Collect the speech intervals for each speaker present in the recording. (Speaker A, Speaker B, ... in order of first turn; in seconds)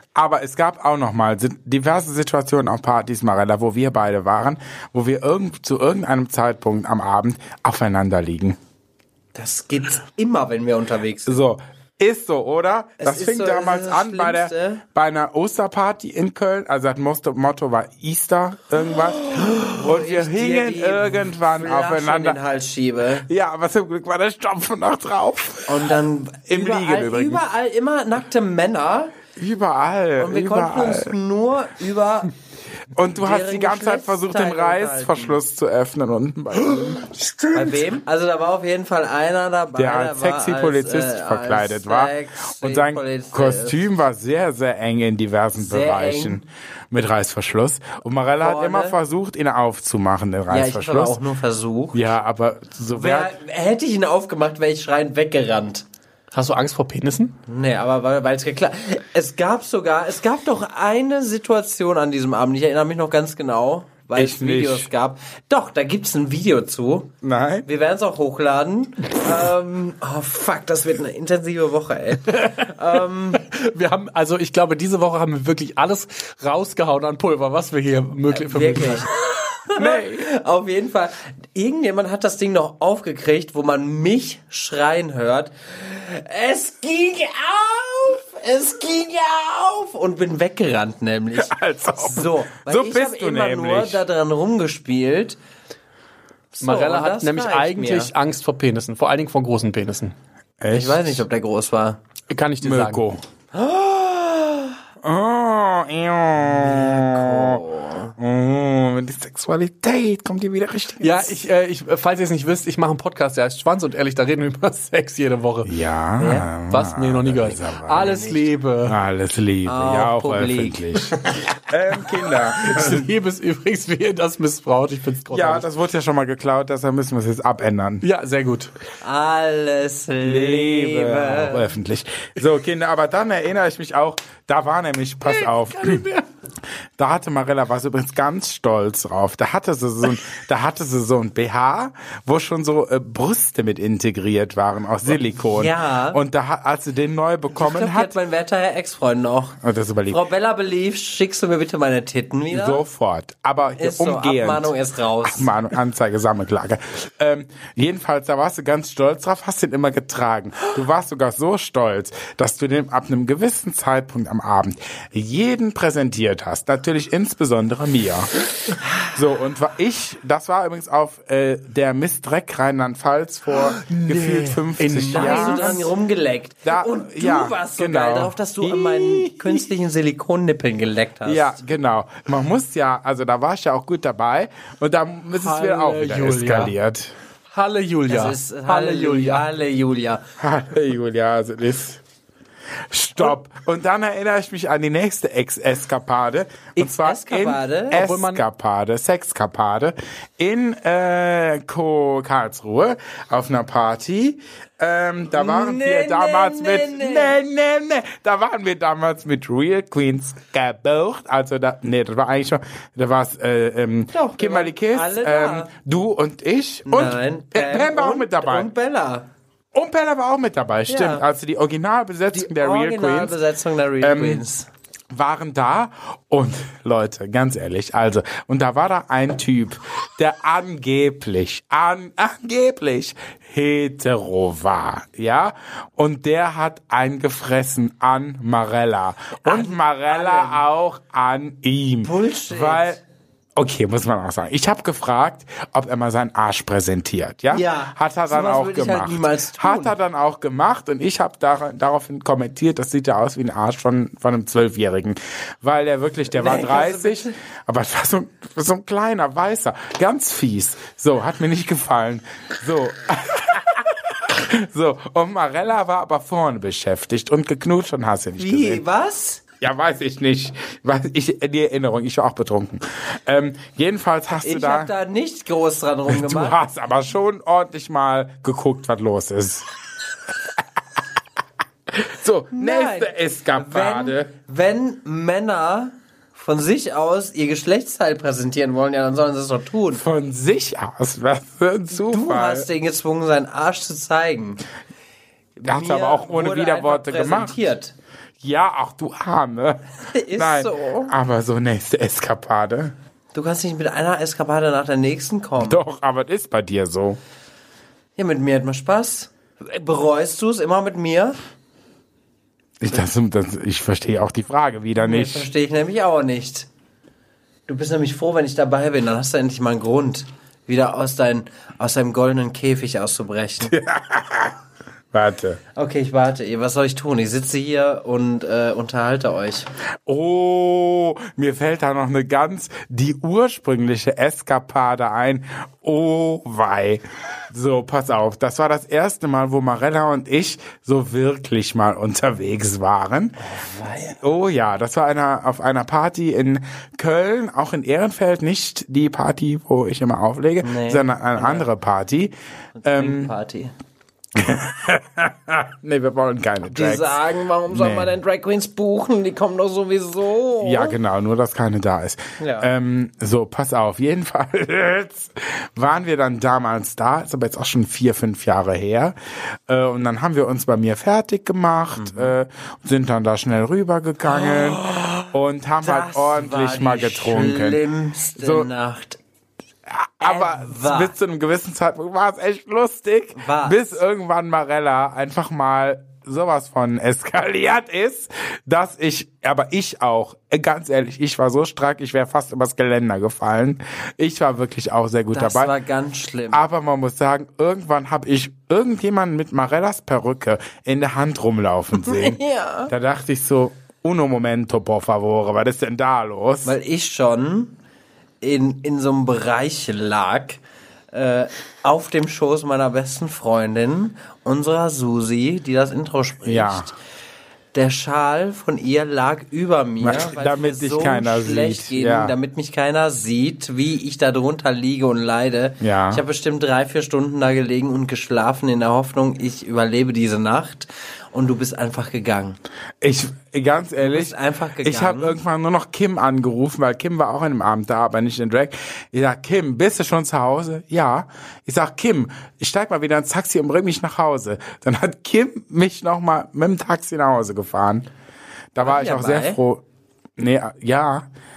Speaker A: 0.1-8.6, 11.3-22.4, 23.3-25.9, 26.5-27.4, 29.4-31.1, 32.9-37.8, 39.8-51.2, 51.9-53.3, 64.2-64.9, 67.2-67.7, 79.8-80.2, 91.3-94.0, 100.6-101.2, 102.6-103.2, 105.0-107.6, 108.2-111.4, 115.6-118.3, 118.8-123.1, 125.3-128.0, 130.2-136.0, 137.0-148.1, 149.6-150.2, 152.5-154.7, 155.2-168.3, 169.1-175.9, 176.6-179.6, 181.2-187.1, 190.4-192.0, 192.9-218.7, 219.7-223.4, 224.0-224.4, 225.1-243.0, 243.6-268.8, 269.6-274.9, 276.1-279.7, 281.9-284.3, 289.9-292.7, 295.6-297.6, 298.4-302.9, 305.6-307.2, 312.8-315.5, 323.6-324.6, 325.1-325.6, 330.1-343.4, 344.2-352.3, 352.8-353.3, 354.3-357.2, 357.7-358.1, 360.6-369.1, 369.7-377.8, 378.4-378.7, 379.9-395.7, 396.5-406.8, 416.4-416.9, 420.0-422.3, 425.8-426.2, 433.0-448.1, 448.7-449.8, 450.4-451.3
Speaker B: 9.3-11.4, 13.0-14.8, 19.1-23.3, 25.7-29.1, 30.2-32.3, 33.2-35.4, 37.5-43.9, 45.6-46.4, 48.4-49.0, 50.5-52.0, 52.9-55.8, 57.5-67.1, 67.7-73.4, 78.3-95.4, 96.5-98.1, 100.7-102.0, 103.5-104.8, 106.4-108.2, 116.2-116.5, 119.6-121.0, 129.0-131.7, 145.5-146.2, 147.5-152.8, 153.8-155.5, 175.1-181.6, 188.1-190.2, 196.8-198.0, 205.3-207.4, 214.1-215.7, 216.9-219.3, 220.9-221.2, 222.3-224.7, 239.4-240.6, 242.0-243.0, 247.5-249.9, 256.3-257.3, 268.4-269.4, 274.4-276.6, 282.5-290.0, 291.9-294.6, 295.6-297.9, 300.1-301.1, 303.3-305.8, 308.1-311.4, 315.0-316.7, 317.7-323.7, 325.8-329.7, 343.4-344.2, 350.6-351.7, 352.8-353.7, 356.7-360.9, 362.4-362.7, 372.0-372.3, 374.3-375.3, 375.8-379.2, 380.2-381.1, 383.4-384.0, 395.3-396.6, 402.0-402.9, 406.6-407.8, 408.4-410.6, 411.1-416.9, 417.7-432.6, 434.0-435.4, 448.8-449.6
Speaker C: 56.3-57.3, 72.3-72.7, 73.3-79.1, 96.6-100.1, 102.3-103.0, 111.0-115.7, 116.7-119.0, 122.5-125.7, 128.0-128.7, 135.2-136.2, 173.8-175.9, 185.4-186.7, 187.5-189.4, 197.9-198.4